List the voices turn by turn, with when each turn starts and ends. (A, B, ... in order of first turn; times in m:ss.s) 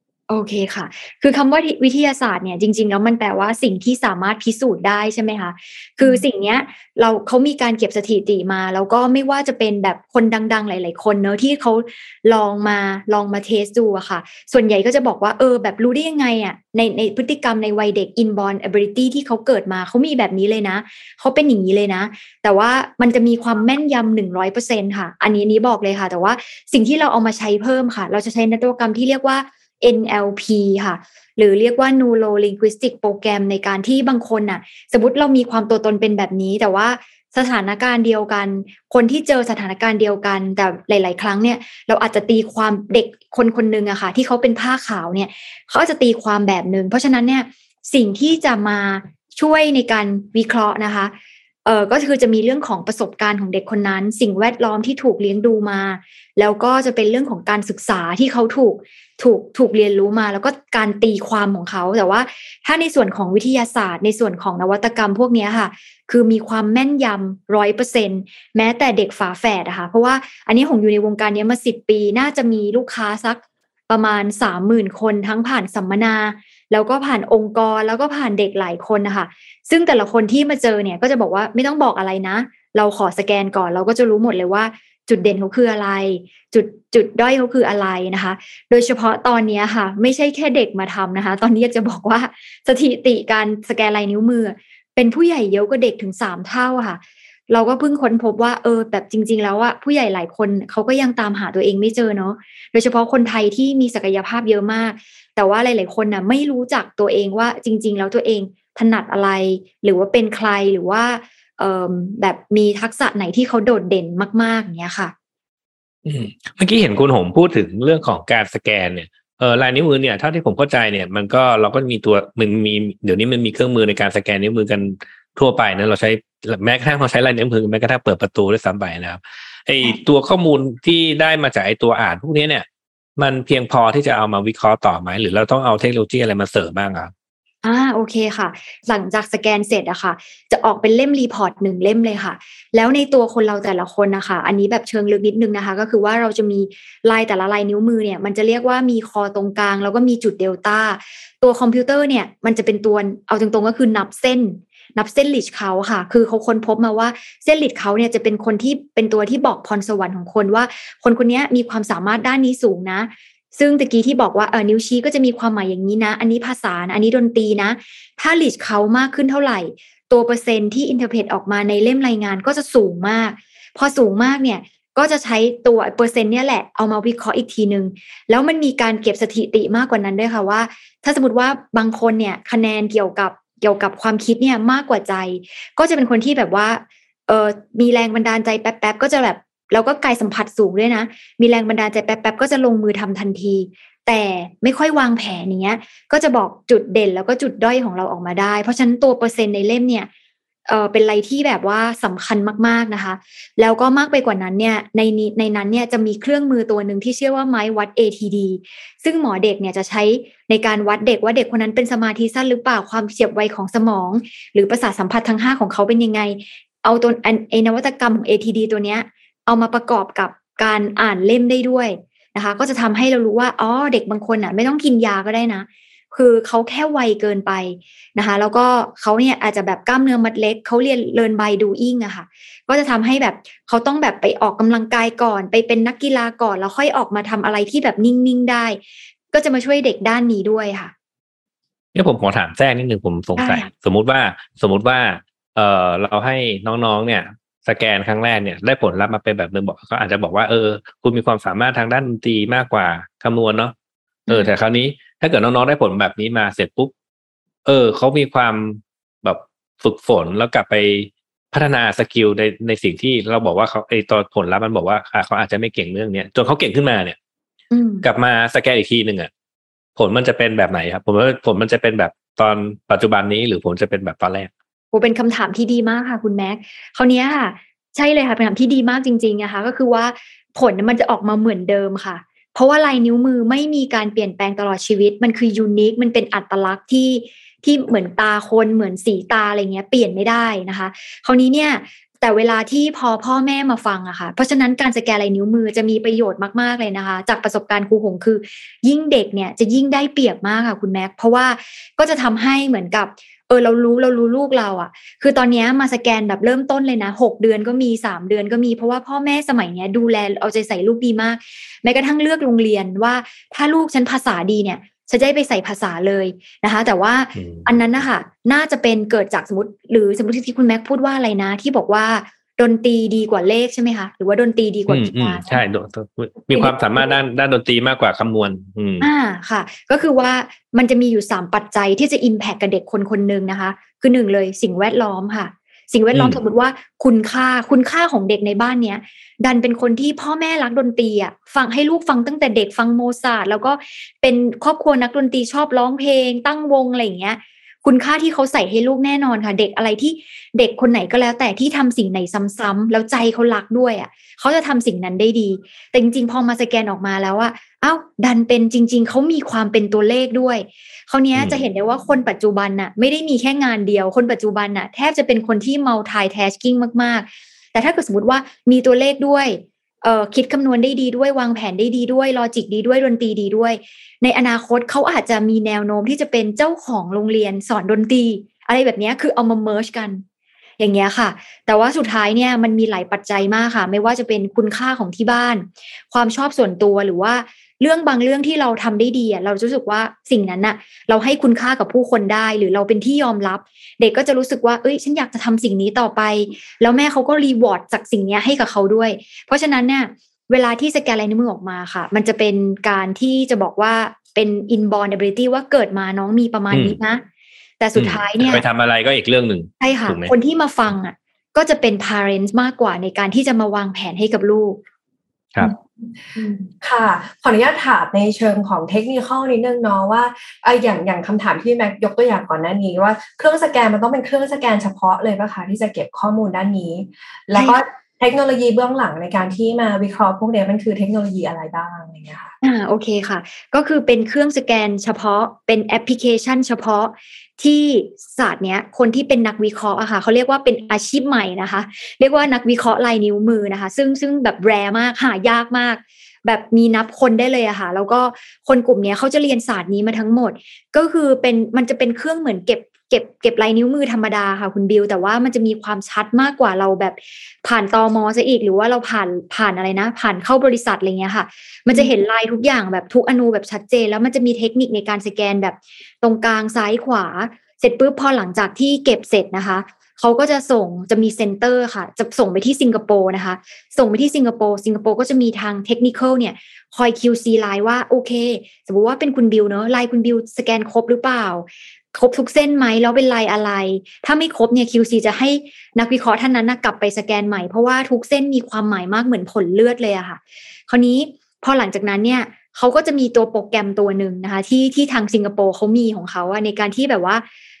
0:00.3-0:51.1 A
0:51.6-1:55.1 A
1:56.0-2:12.6 B
2:13.2-2:17.1 B
2:17.6-3:20.1 A
3:20.7-3:58.8 A
3:59.3-4:00.9 A
4:01.9-4:13.7 B
4:03.4-4:03.7 A
4:14.3-4:16.9 B
4:17.6-4:27.2 B
4:27.7-4:28.0 A
4:28.0-4:29.3 B
4:30.0-4:34.5 B
4:34.9-5:25.6 A
5:17.3-5:17.8 B
5:24.9-5:29.1 B
5:26.5-5:27.2 A
5:29.0-6:20.2 A
5:36.1-5:36.4 B
6:01.3-6:01.6 B
6:20.8-6:47.2 A
6:46.7-6:47.0 B
6:47.8-6:48.6 A
6:48.0-6:50.3 B
6:49.8-6:54.8 A
6:55.6-7:12.5 C
7:12.6-8:17.4 A